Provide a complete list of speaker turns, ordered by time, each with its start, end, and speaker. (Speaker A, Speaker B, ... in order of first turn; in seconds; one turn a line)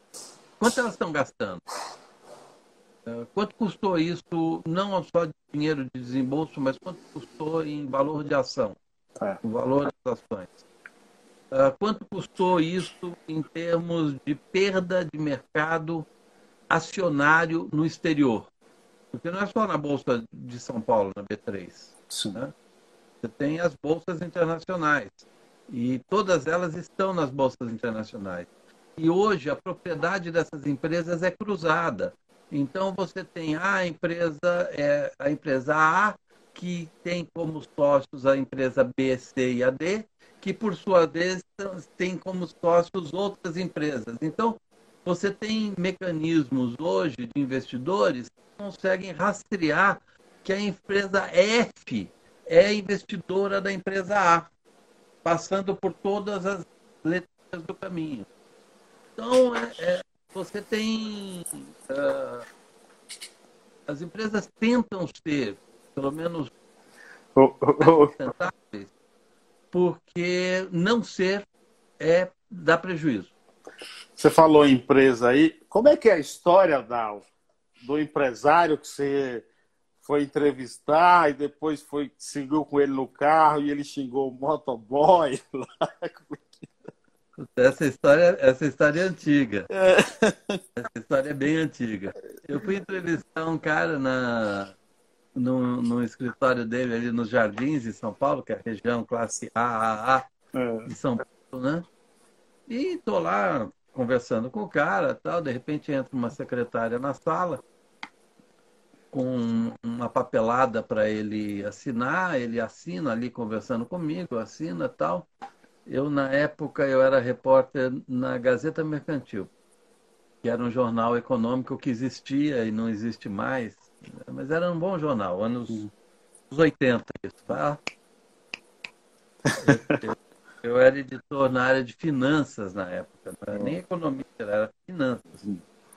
Speaker A: 0.6-1.6
Speaker A: 3.1-8.8
Speaker A: 9.4-10.6
Speaker A: 11.5-16.1
Speaker A: 16.7-18.5
Speaker A: 19.1-22.5
Speaker B: 22.1-22.4
Speaker A: 23.2-54.5
Speaker A: 55.2-58.3
Speaker A: 59.2-62.5
Speaker A: 63.9-66.5
Speaker B: 67.4-68.1
Speaker A: 67.8-68.9
Speaker A: 69.7-71.5
Speaker A: 72.0-73.3
Speaker B: 74.2-77.3
Speaker B: 77.8-79.5
Speaker B: 80.0-86.7
Speaker A: 87.4-89.7
Speaker B: 89.7-90.6
Speaker A: 90.8-94.8
Speaker A: 95.3-100.2
Speaker B: 100.5-100.9
Speaker A: 100.8-101.8
Speaker A: 102.7-107.6
Speaker A: 109.1-115.3
Speaker A: 115.9-119.5
Speaker A: 120.4-125.9
Speaker A: 126.5-127.8
Speaker B: 129.5-130.0
Speaker A: 129.6-135.4